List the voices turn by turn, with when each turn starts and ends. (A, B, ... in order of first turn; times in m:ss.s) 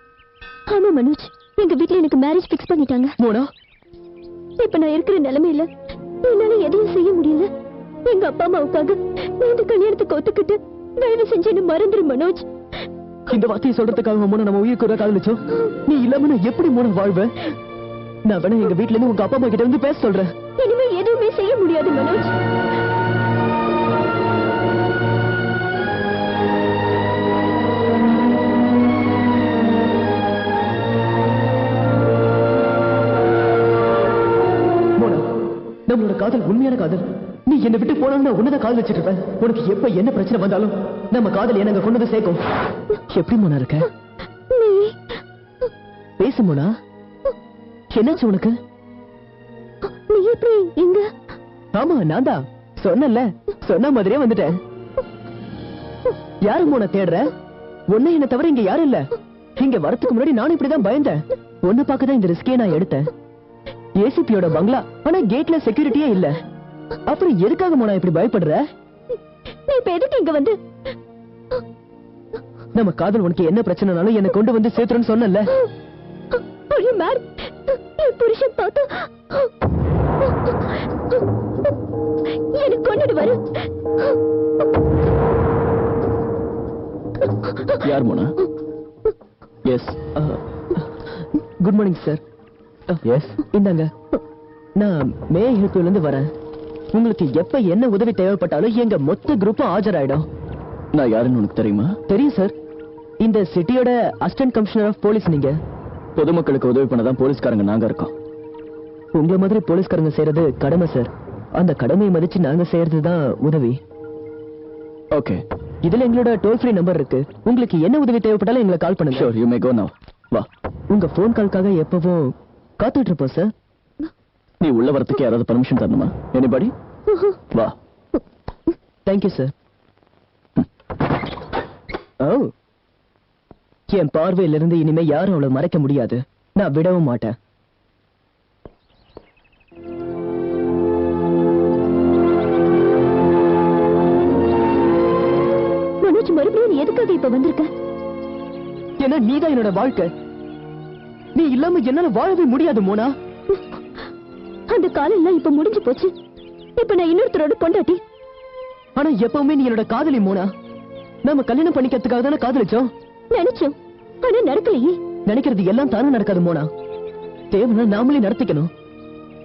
0:00.7-0:03.2 A
0:03.2-0:03.4 B
0:04.6-0:05.7 A
0:06.2-0:07.5 A
0:08.0-0:12.4 A
0:13.3-0:17.5 B
0:18.3-0:20.3 B
0:20.6-0:22.3 A
0:35.9-0:42.4 B
0:43.1-0:43.9 B
0:44.5-0:45.0 A
0:46.2-0:46.7 B
0:47.9-0:48.5 B
0:49.8-0:51.1 A
0:51.7-0:54.6 B
0:56.4-0:57.2 B
0:57.9-0:59.0 B
0:59.6-1:03.0 B
1:04.0-1:06.3 B
1:07.1-1:08.6 B
1:09.7-1:10.6 A
1:12.7-1:15.5 B
1:16.7-1:19.5 A
1:20.2-1:20.6 A
1:22.5-1:24.1 A
1:27.5-1:27.7 A
1:27.8-1:28.4 C
1:29.6-1:30.0 C
1:30.2-1:30.8 B
1:31.6-1:32.2 B
1:32.9-1:33.9 B
1:33.0-1:33.4 C
1:34.8-1:36.2 B
1:36.9-1:40.2 B
1:40.9-1:42.0 C
1:42.1-1:42.5 B
1:43.2-1:45.5 B
1:46.2-1:48.1 C
1:49.1-1:53.8 B
1:55.1-1:55.4 C
1:55.8-1:59.3 B
1:59.1-2:00.5 C
2:00.9-2:03.5 B
2:04.6-2:06.7 C
2:07.1-2:07.4 A
2:09.0-2:09.5 B
2:12.2-2:12.5 B
2:13.9-2:17.3 B
2:26.0-2:27.7 A
2:29.0-2:30.1 B
2:31.4-2:33.1 B
2:34.7-2:36.1 A
2:36.8-2:38.0 A
2:39.0-2:40.5 B
2:41.2-2:42.8 B
2:43.3-2:45.0 A
2:45.3-2:46.7 B
2:47.5-2:48.7 B